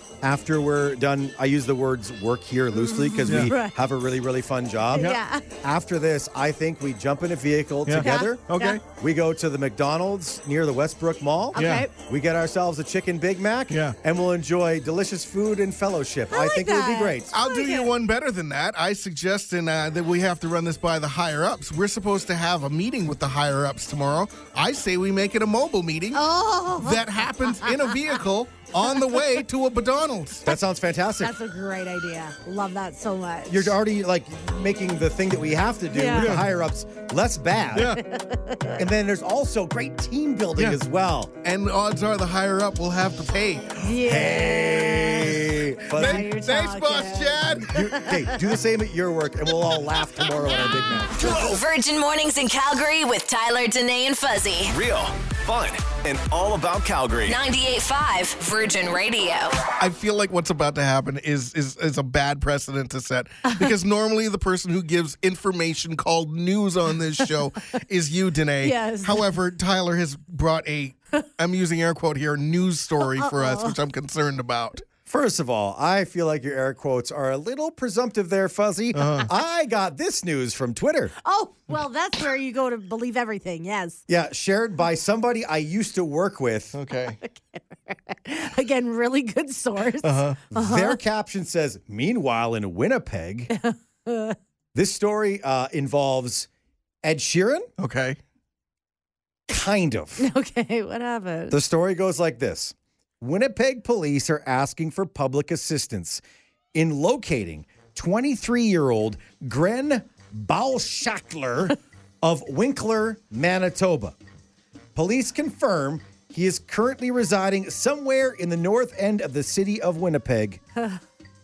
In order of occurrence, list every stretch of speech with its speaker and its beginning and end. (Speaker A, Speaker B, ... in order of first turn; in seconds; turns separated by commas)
Speaker A: 0.2-17.3, Speaker B: 2.7-3.8, Speaker B: 4.9-5.5, Speaker C: 7.9-8.8, Speaker B: 8.0-8.8, Speaker B: 11.5-11.9, Speaker C: 11.6-11.9, Speaker C: 13.7-14.0, Speaker B: 16.3-17.9, Speaker C: 17.3-26.2, Speaker B: 26.1-28.2, Speaker C: 26.8-30.4, Speaker B: 28.9-29.4, Speaker A: 30.4-31.3, Speaker B: 31.2-33.8, Speaker A: 33.5-38.0, Speaker B: 35.9-36.4, Speaker C: 36.2-36.5, Speaker C: 37.7-38.0, Speaker B: 37.9-38.8, Speaker A: 38.8-41.3, Speaker C: 41.4-43.8, Speaker B: 43.8-48.4, Speaker A: 44.0-46.3, Speaker C: 46.0-47.8, Speaker A: 47.7-51.5, Speaker D: 51.2-54.7, Speaker E: 54.7-57.4, Speaker D: 57.3-59.6, Speaker C: 59.8-74.8, Speaker B: 63.5-63.8, Speaker B: 68.6-69.2, Speaker B: 73.0-73.8, Speaker A: 75.1-81.1, Speaker C: 78.9-79.3, Speaker B: 81.2-84.0, Speaker A: 84.1-86.7, Speaker C: 86.7-87.2, Speaker B: 87.2-91.0, Speaker C: 90.0-90.4, Speaker A: 90.5-93.5, Speaker B: 93.5-94.4, Speaker A: 94.7-96.5, Speaker A: 97.0-97.7, Speaker C: 97.8-98.2, Speaker A: 99.5-100.3, Speaker B: 100.2-101.6, Speaker A: 101.5-106.2, Speaker A: 106.7-114.2, Speaker A: 115.0-120.6